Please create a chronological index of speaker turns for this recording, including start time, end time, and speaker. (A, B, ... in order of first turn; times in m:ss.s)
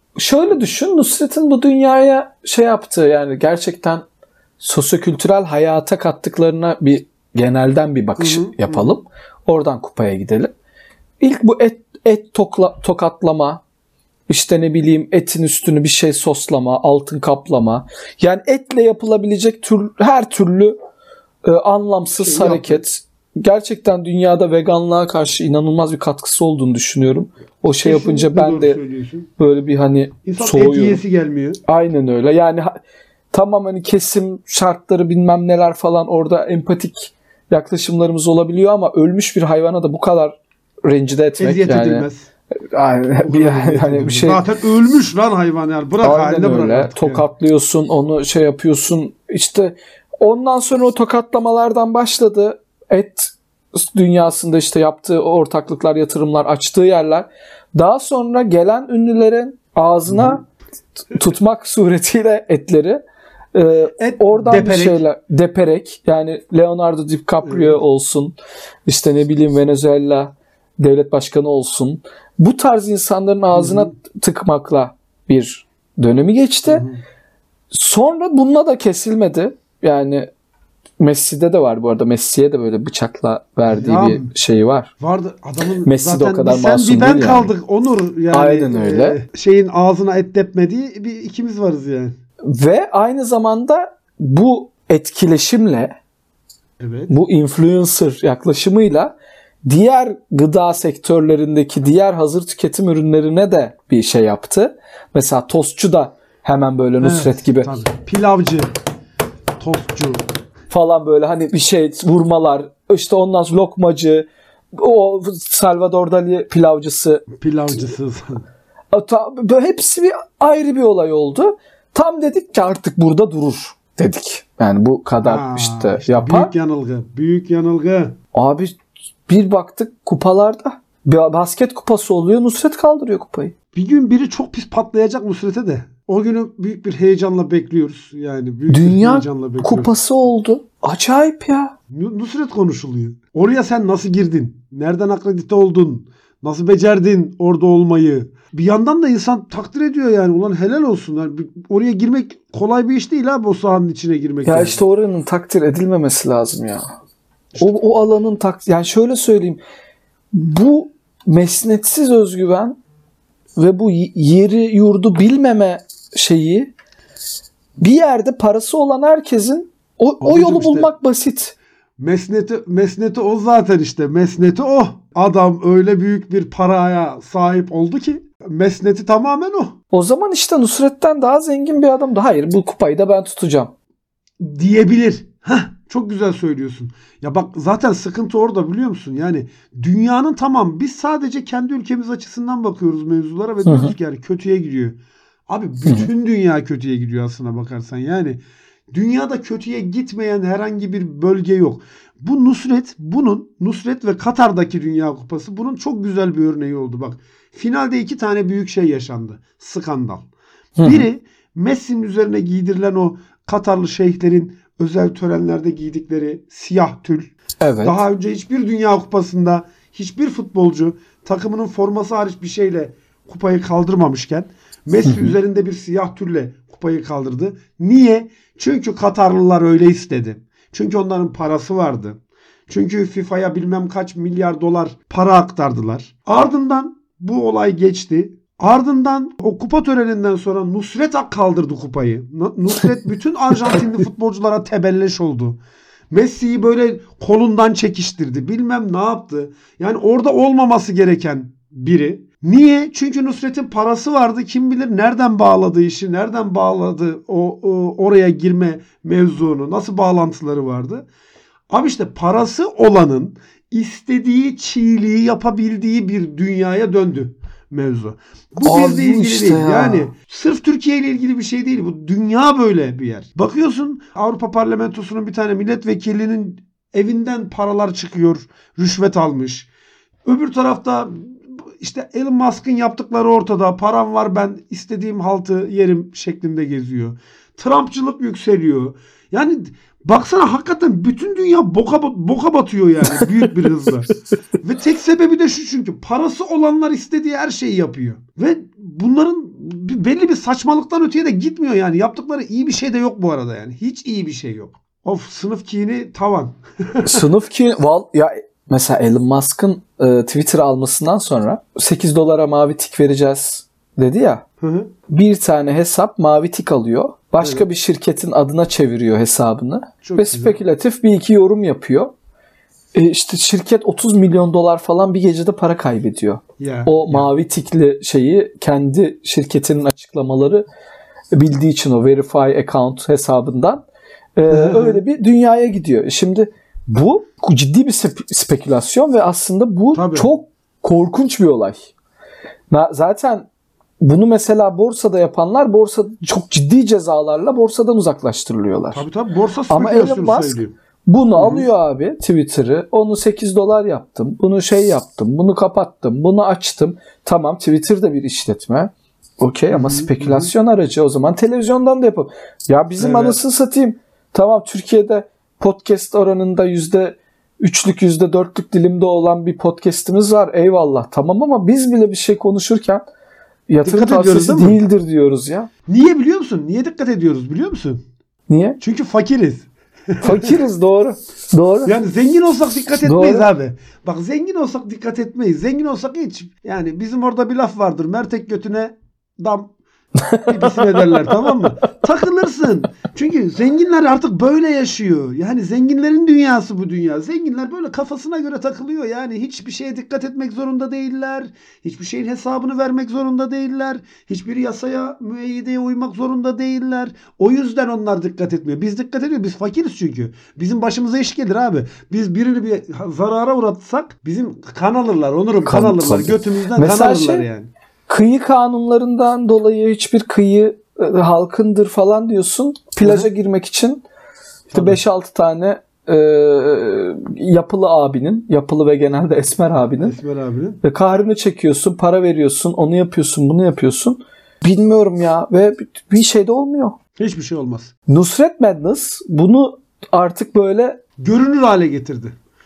0:00.2-0:04.0 A
0:04.6-0:10.5 A
0:08.2-0:09.0 B
0:11.2-0:13.6 A
0:14.3-0:20.8 A
0:21.4-0:28.8 A
0:22.2-0:22.8 B
0:27.8-0:29.3 B
0:29.4-0:31.0 A
0:30.2-0:31.6 B
0:31.7-0:32.7 A
0:33.3-0:44.4 A
0:41.4-0:42.3 B
0:43.2-0:47.2 B
0:46.0-1:00.4 A
1:00.1-1:00.4 B
1:01.1-1:03.0 A
1:03.5-1:08.3 A
1:04.0-1:05.0 B
1:07.4-1:07.8 B
1:08.8-1:16.8 A
1:13.5-1:13.9 B
1:16.7-1:17.0 B
1:17.7-1:20.3 A
1:21.0-1:24.9 A
1:23.7-1:24.3 B
1:25.0-1:32.1 B
1:25.8-1:27.5 A
1:28.3-1:29.2 A
1:32.4-1:36.0 A
1:36.8-1:37.1 B
1:37.1-1:39.1 A
1:39.6-1:47.7 A
1:47.0-1:48.7 B
1:49.6-1:50.2 B
1:50.7-1:57.2 A
1:57.4-1:58.4 B
1:58.9-2:06.5 A
2:05.2-2:08.2 B
2:08.3-2:08.7 A
2:09.3-2:13.5 A
2:13.7-2:19.9 B
2:18.7-2:21.7 A
2:21.9-2:34.8 B
2:34.4-2:36.8 A
2:37.6-2:39.6 A
2:40.3-2:42.8 A
2:43.6-2:46.7 A
2:47.8-2:51.5 A
2:50.2-2:50.9 B
2:52.0-2:59.8 B
2:59.9-3:03.7 A
3:04.4-3:18.4 B
3:13.6-3:13.9 A
3:18.9-3:30.3 B
3:30.8-3:31.1 A
3:30.8-4:05.6 B
3:37.6-3:38.0 A
3:45.0-3:45.3 A
4:06.1-4:21.1 B
4:21.7-4:39.7 B
4:28.6-4:30.1 A
4:40.2-5:07.2 B
5:07.0-5:14.4 A
5:14.6-5:14.9 B
5:15.1-5:22.1 A
5:20.0-5:20.6 B
5:22.9-5:30.6 A
5:26.6-5:27.3 B
5:31.3-5:33.8 A
5:34.4-5:41.8 A
5:34.5-5:35.0 B
5:39.9-5:40.3 B
5:42.7-5:43.5 A
5:44.0-5:49.0 A
5:48.9-5:50.7 B
5:49.7-6:13.0 A
5:51.3-5:51.6 B
5:59.7-6:00.5 B
6:03.0-6:03.4 B
6:13.7-6:15.7 A
6:13.8-6:14.8 B
6:15.9-6:18.0 B
6:18.5-6:18.8 A
6:18.8-6:20.6 B
6:20.2-6:21.9 A
6:21.8-6:29.7 B
6:23.0-6:23.5 A
6:30.2-6:31.3 A
6:30.4-6:57.7 B
6:55.6-6:57.4 A
6:58.1-7:04.0 A
7:04.7-7:05.0 B
7:04.7-7:10.2 A
7:09.9-7:10.8 B
7:10.8-7:17.0 A
7:17.2-7:17.9 B
7:18.1-7:21.0 A
7:21.2-7:22.3 B